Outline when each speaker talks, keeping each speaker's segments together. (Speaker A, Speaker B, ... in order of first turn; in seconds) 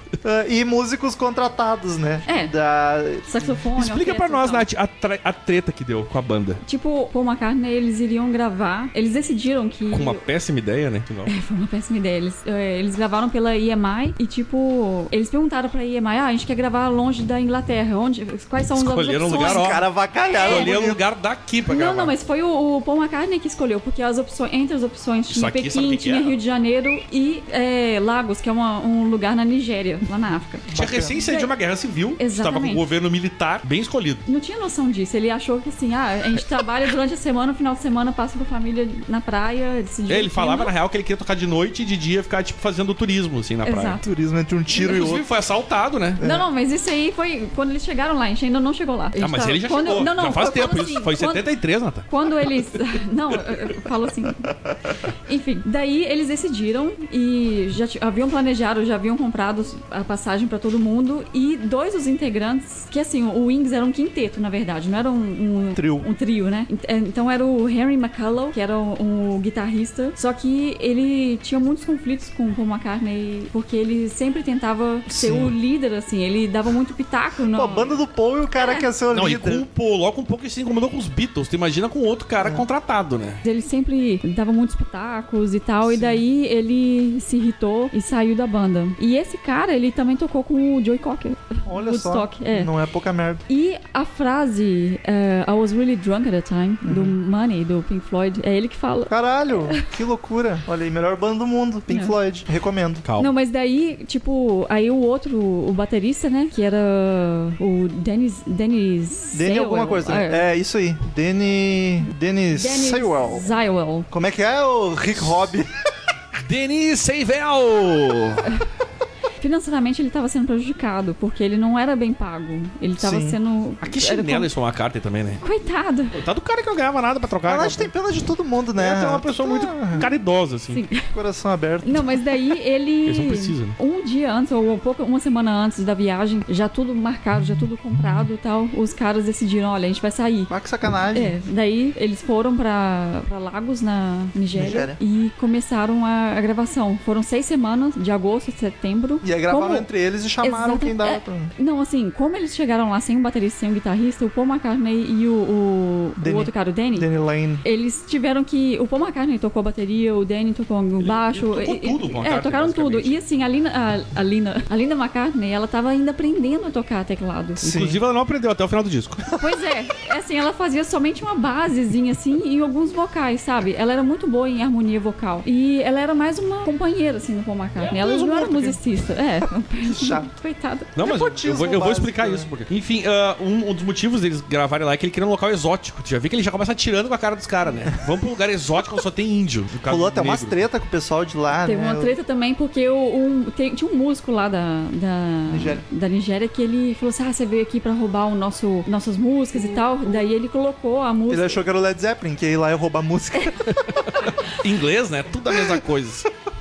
Speaker A: 0.2-3.5, 19.3-21.0, 30.7-31.1, 44.0-45.2, 46.2-46.5, 65.8-66.1, 75.1-75.5, 77.5-79.6, 82.4-82.7, 85.9-86.2, 91.7-93.4, 96.8-97.1, 99.1-103.0, 109.3-113.5, 114.1-115.7, 123.0-123.4, 127.5-130.1, 131.1-132.2, 140.5-141.3, 144.5-145.0, 149.2-151.5, 156.2-157.6, 167.6-168.0, 179.8-180.3, 181.0-182.5, 189.8-192.1, 195.5-195.8, 201.3-203.6
Speaker B: 2.3-2.5, 3.2-4.6, 6.6-10.2, 11.2-19.7, 20.3-20.7, 21.7-31.5, 32.2-32.8, 34.3-40.7, 43.6-44.0, 46.2-51.5, 52.1-54.5, 55.2-78.0, 83.4-92.7, 93.5-99.8, 101.9-102.1, 103.2-110.4, 112.5-114.1, 119.4-124.5, 125.4-126.1, 130.7-131.1, 131.8-140.5, 141.1-149.9, 150.4-157.1, 157.6-167.6, 169.4-180.9, 191.7-201.6
Speaker C: 3.8-6.6, 9.9-11.3, 18.7-19.9, 20.4-22.1, 25.3-26.4, 30.7-34.2, 40.1-44.0, 44.7-46.2, 49.2-52.1, 79.1-83.4, 103.0-103.3, 116.4-118.5, 123.8-125.4, 126.1-127.9, 128.8-130.8, 133.1-133.8, 161.0-163.2, 167.6-169.2, 177.8-178.8, 180.9-190.6, 203.6-206.2